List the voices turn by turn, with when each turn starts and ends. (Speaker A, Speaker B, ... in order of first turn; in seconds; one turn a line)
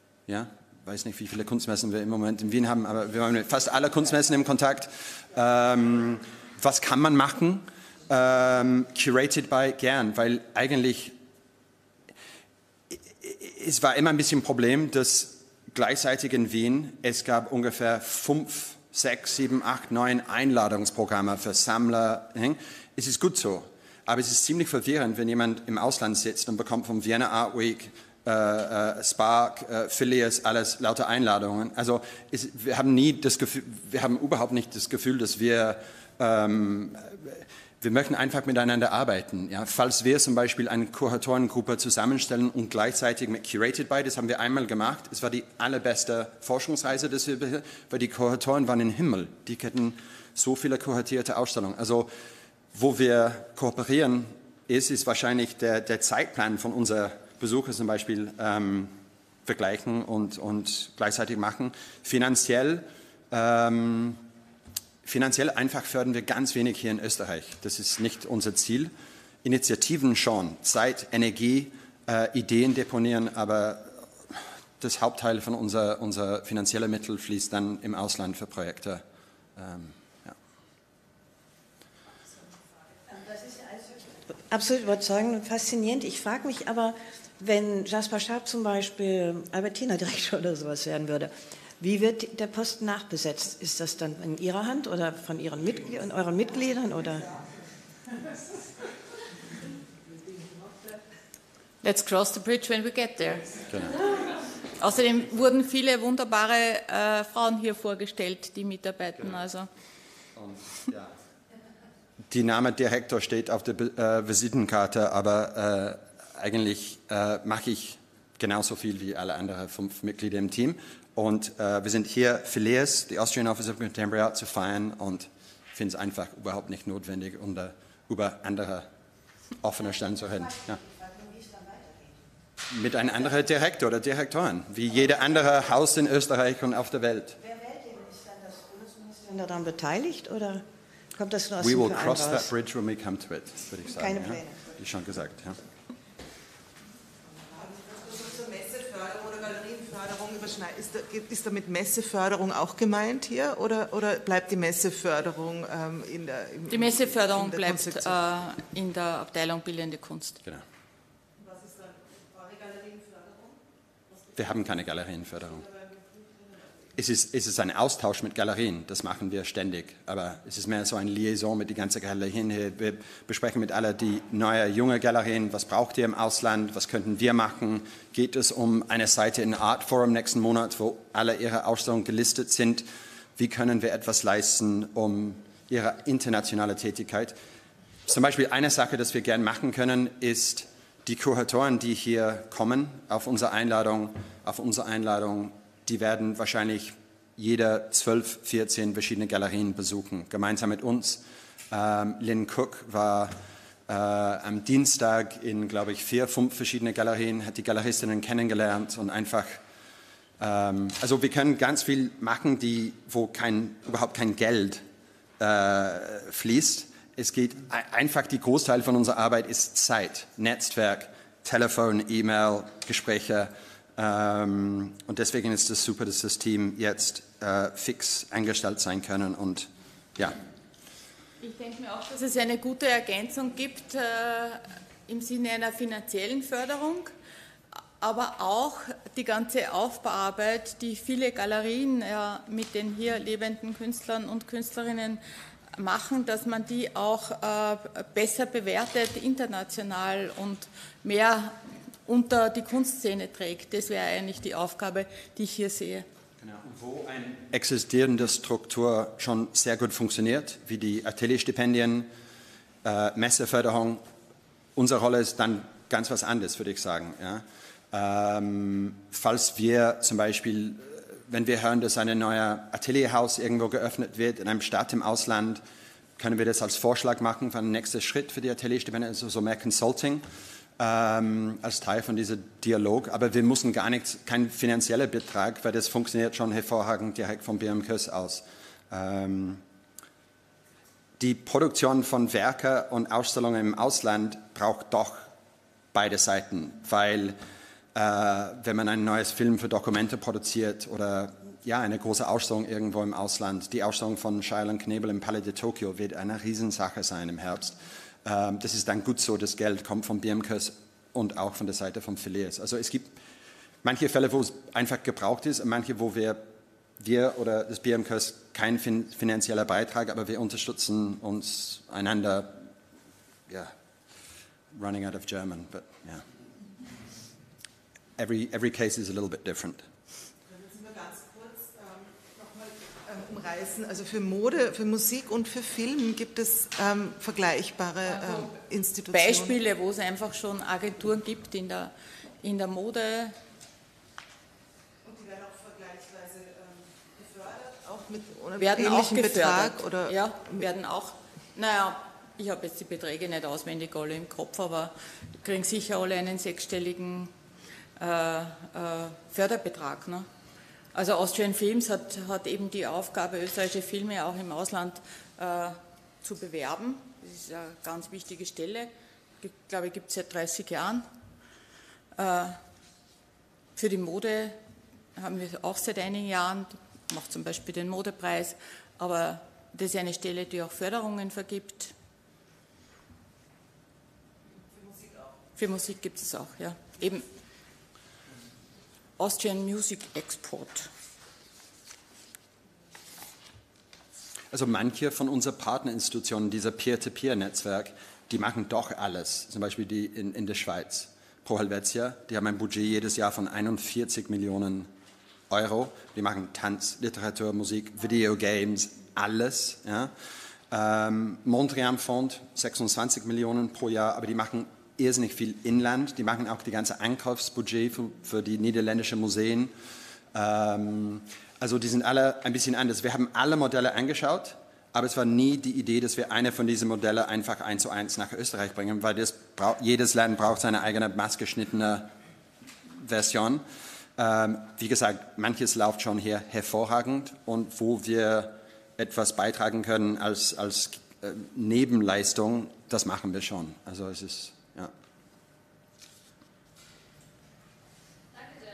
Speaker A: 0.3-11.2
Speaker A: 12.9-52.1
Speaker A: 52.7-64.2
Speaker A: 65.0-68.9
Speaker A: 69.4-79.0
Speaker A: 79.5-80.4
Speaker B: 83.3-97.3
Speaker C: 101.8-103.6
Speaker C: 104.8-109.7
Speaker A: 110.3-111.1
Speaker A: 112.3-128.9
Speaker A: 129.6-130.8
Speaker B: 131.3-131.8
Speaker A: 132.7-137.4
Speaker B: 137.7-142.5
Speaker A: 141.6-145.6
Speaker B: 143.9-144.6
Speaker D: 147.5-158.2
Speaker C: 156.7-160.4
Speaker D: 161.4-163.4
Speaker A: 164.3-165.6
Speaker A: 166.9-187.3
Speaker A: 188.1-203.3
Speaker A: 203.9-209.6
Speaker A: 210.4-214.8
Speaker A: 215.4-230.4
Speaker C: 231.4-237.1
Speaker C: 238.0-245.2
Speaker C: 245.8-256.1
Speaker A: 256.4-262.1
Speaker A: 262.8-264.0
Speaker A: 264.8-275.6
Speaker A: 276.2-280.2
Speaker A: 280.8-289.6
Speaker A: 291.2-295.3
Speaker A: 295.9-297.4
Speaker A: 297.9-313.1
Speaker A: 313.8-322.7
Speaker A: 323.5-323.8
Speaker A: 324.7-326.2
Speaker A: 328.2-329.9
Speaker D: 330.5-339.6
Speaker C: 338.1-338.5
Speaker C: 339.1-343.3
Speaker D: 345.0-350.6
Speaker C: 348.6-357.3
Speaker C: 358.0-360.3
Speaker C: 360.9-371.0
Speaker C: 372.1-372.6
Speaker C: 373.8-374.6
Speaker C: 375.1-381.9
Speaker C: 385.6-387.2
Speaker C: 389.2-390.9
Speaker A: 394.5-404.9
Speaker A: 405.5-410.1
Speaker A: 410.7-419.7
Speaker A: 420.3-432.1
Speaker A: 432.9-433.6
Speaker A: 434.2-444.9